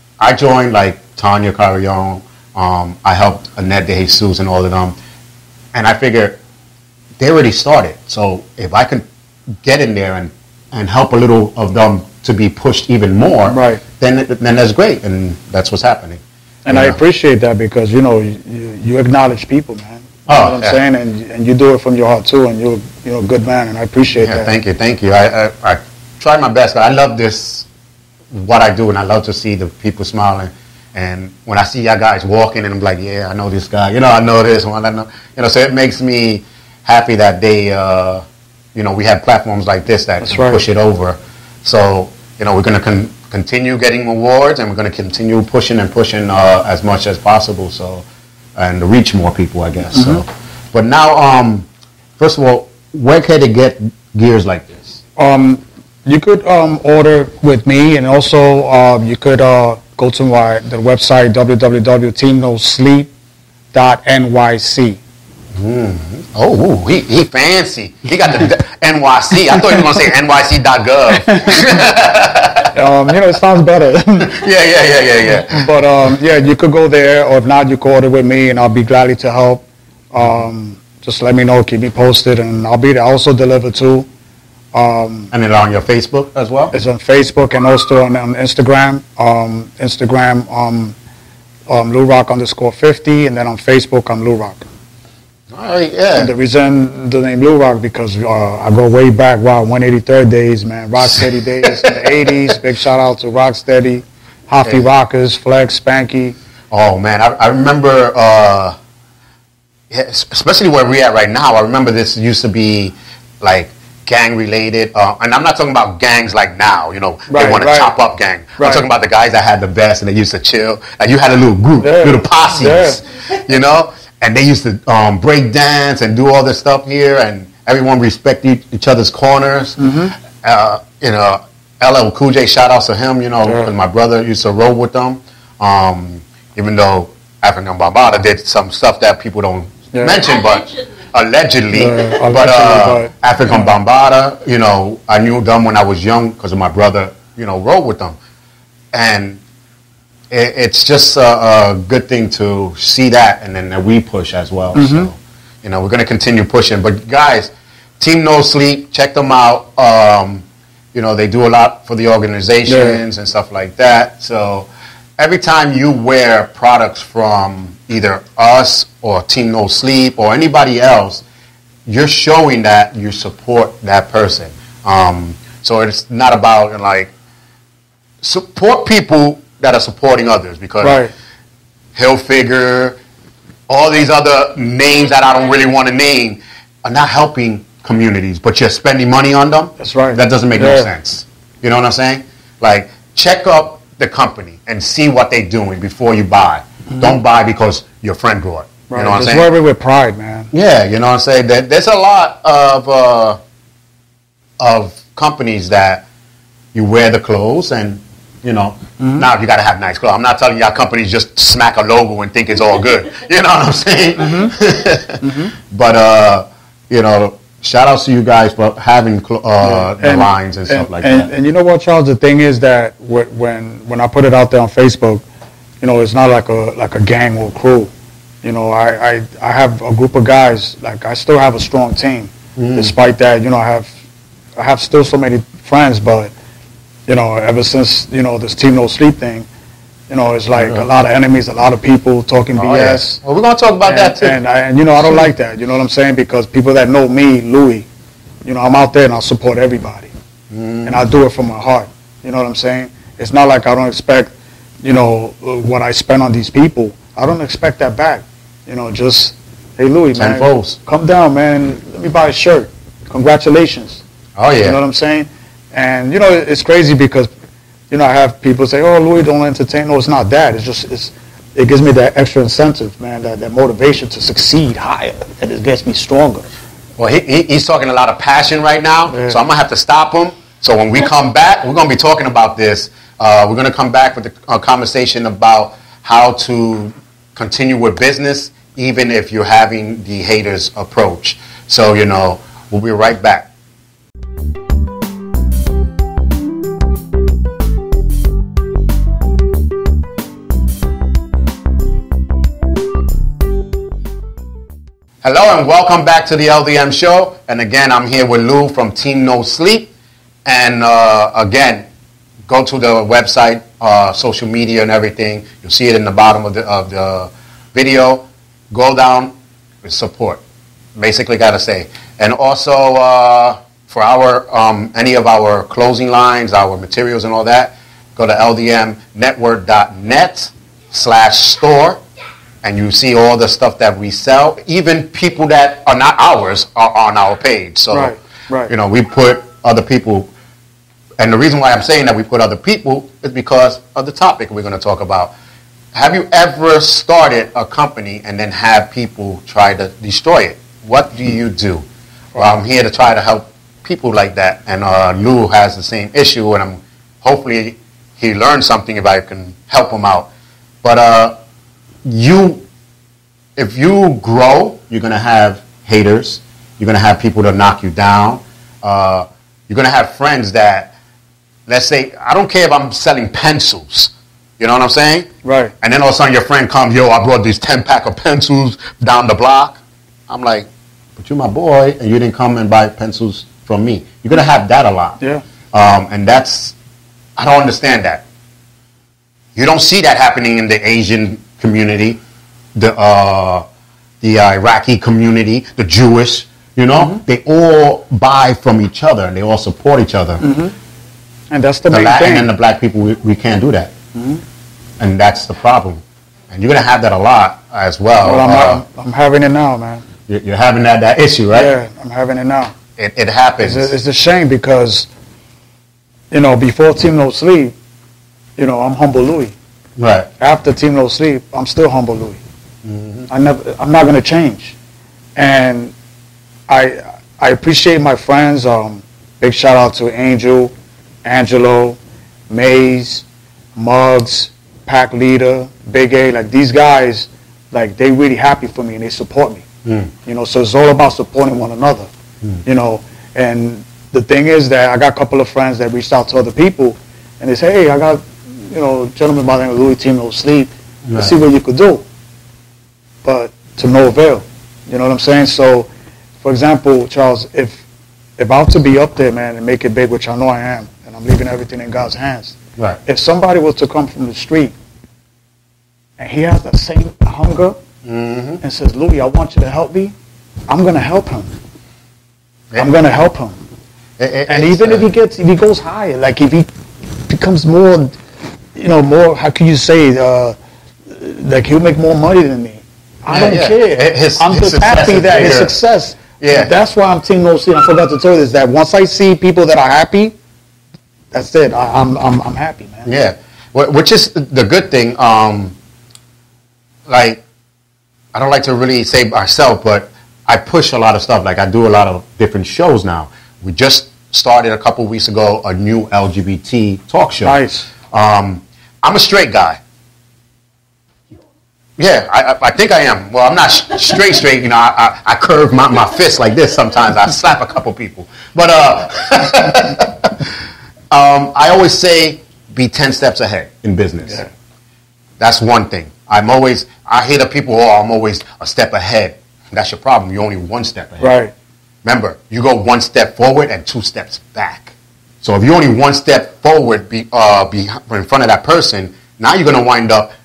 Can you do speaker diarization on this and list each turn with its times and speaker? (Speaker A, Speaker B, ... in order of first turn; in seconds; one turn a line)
Speaker A: 0.2-5.0
Speaker A: 5.7-6.4
Speaker A: 7.2-9.1
Speaker A: 9.6-17.0
Speaker B: 13.5-13.8
Speaker B: 16.6-24.5
Speaker A: 20.3-20.8
Speaker A: 24.2-27.7
Speaker A: 28.3-38.2
Speaker A: 38.8-48.0
Speaker B: 40.2-40.6
Speaker A: 48.6-55.0
Speaker B: 49.9-50.2
Speaker B: 55.2-63.1
Speaker B: 63.7-65.0
Speaker A: 65.5-72.7
Speaker B: 71.2-71.8
Speaker B: 72.7-74.4
Speaker A: 74.2-75.7
Speaker B: 75.5-84.1
Speaker B: 84.7-85.3
Speaker A: 85.3-86.7
Speaker B: 86.7-91.0
Speaker B: 91.7-94.6
Speaker A: 95.5-96.3
Speaker B: 96.2-106.4
Speaker A: 101.6-101.9
Speaker A: 106.7-108.8
Speaker A: 109.9-129.9
Speaker B: 117.3-117.9
Speaker B: 118.6-118.8
Speaker B: 121.8-123.0
Speaker B: 129.8-130.2
Speaker A: 130.4-148.2
Speaker B: 139.9-140.2
Speaker B: 141.7-143.7
Speaker A: 148.9-149.4
Speaker A: 150.3-171.2
Speaker B: 154.7-155.1
Speaker B: 162.7-163.0
Speaker A: 171.9-177.1
Speaker A: 178.2-181.0
Speaker B: 180.8-181.1
Speaker A: 181.9-183.0
Speaker A: 183.7-199.5
Speaker B: 189.8-190.9
Speaker B: 196.9-197.2
Speaker B: 198.9-200.5
Speaker A: 200.5-203.4
Speaker A: 204.6-206.1
Speaker A: 206.7-221.3
Speaker B: 209.0-209.3
Speaker B: 214.2-214.6
Speaker B: 215.2-215.5
Speaker B: 219.6-225.2
Speaker B: 225.8-227.9
Speaker B: 228.4-233.9
Speaker A: 232.6-232.9
Speaker B: 234.6-236.3
Speaker B: 237.1-239.5
Speaker B: 240.1-243.2
Speaker A: 240.6-240.9
Speaker A: 242.6-244.4
Speaker B: 243.8-247.9
Speaker B: 248.4-250.1
Speaker A: 250.5-251.0
Speaker B: 250.9-264.0
Speaker A: 260.2-260.8
Speaker A: 264.4-264.8
Speaker B: 264.6-267.3
Speaker B: 267.9-276.5
Speaker A: 277.0-293.5
Speaker A: 305.2-309.9
Speaker A: 310.5-311.9
Speaker A: 312.5-320.4
Speaker A: 321.0-332.0
Speaker A: 332.6-338.1
Speaker B: 337.9-338.7
Speaker A: 338.7-340.3
Speaker A: 341.2-345.3
Speaker A: 345.9-360.3
Speaker A: 360.8-361.4
Speaker A: 362.1-362.6
Speaker A: 363.6-370.9
Speaker A: 371.7-375.3
Speaker B: 375.4-375.7
Speaker A: 375.8-385.2
Speaker A: 385.7-386.8
Speaker A: 387.4-388.2
Speaker A: 389.6-392.2
Speaker A: 392.8-393.6
Speaker A: 394.2-400.4
Speaker B: 400.4-400.7
Speaker B: 401.5-402.5
Speaker A: 401.9-403.9
Speaker B: 404.1-404.4
Speaker A: 405.0-408.8
Speaker B: 408.2-410.0
Speaker A: 410.3-411.7
Speaker B: 411.5-412.7
Speaker A: 413.0-413.9
Speaker B: 413.6-415.1
Speaker B: 416.3-417.8
Speaker B: 418.6-419.5
Speaker A: 420.0-420.3
Speaker B: 420.4-422.4
Speaker A: 422.8-423.3
Speaker B: 423.3-424.8
Speaker B: 425.4-425.9
Speaker B: 426.7-430.7
Speaker B: 431.2-432.0
Speaker B: 432.5-433.2
Speaker B: 433.8-439.7
Speaker A: 439.9-440.1
Speaker B: 440.2-442.1
Speaker B: 442.6-452.0
Speaker A: 451.1-451.3
Speaker B: 453.2-455.9
Speaker B: 456.4-457.8
Speaker B: 458.4-464.7
Speaker B: 466.2-467.8
Speaker A: 468.0-468.6
Speaker B: 468.6-470.1
Speaker B: 470.7-471.5
Speaker B: 472.8-473.6
Speaker A: 474.2-475.1
Speaker B: 474.5-476.7
Speaker B: 477.3-478.2
Speaker B: 478.8-480.6
Speaker B: 481.1-490.4
Speaker A: 483.3-485.8
Speaker A: 486.4-486.7
Speaker B: 491.3-493.1
Speaker A: 493.1-495.8
Speaker A: 497.1-497.4
Speaker A: 498.3-507.6
Speaker B: 507.4-507.9
Speaker A: 508.1-509.8
Speaker A: 512.0-520.5
Speaker A: 521.1-524.4
Speaker A: 525.4-531.4
Speaker B: 531.2-531.5
Speaker A: 532.0-540.3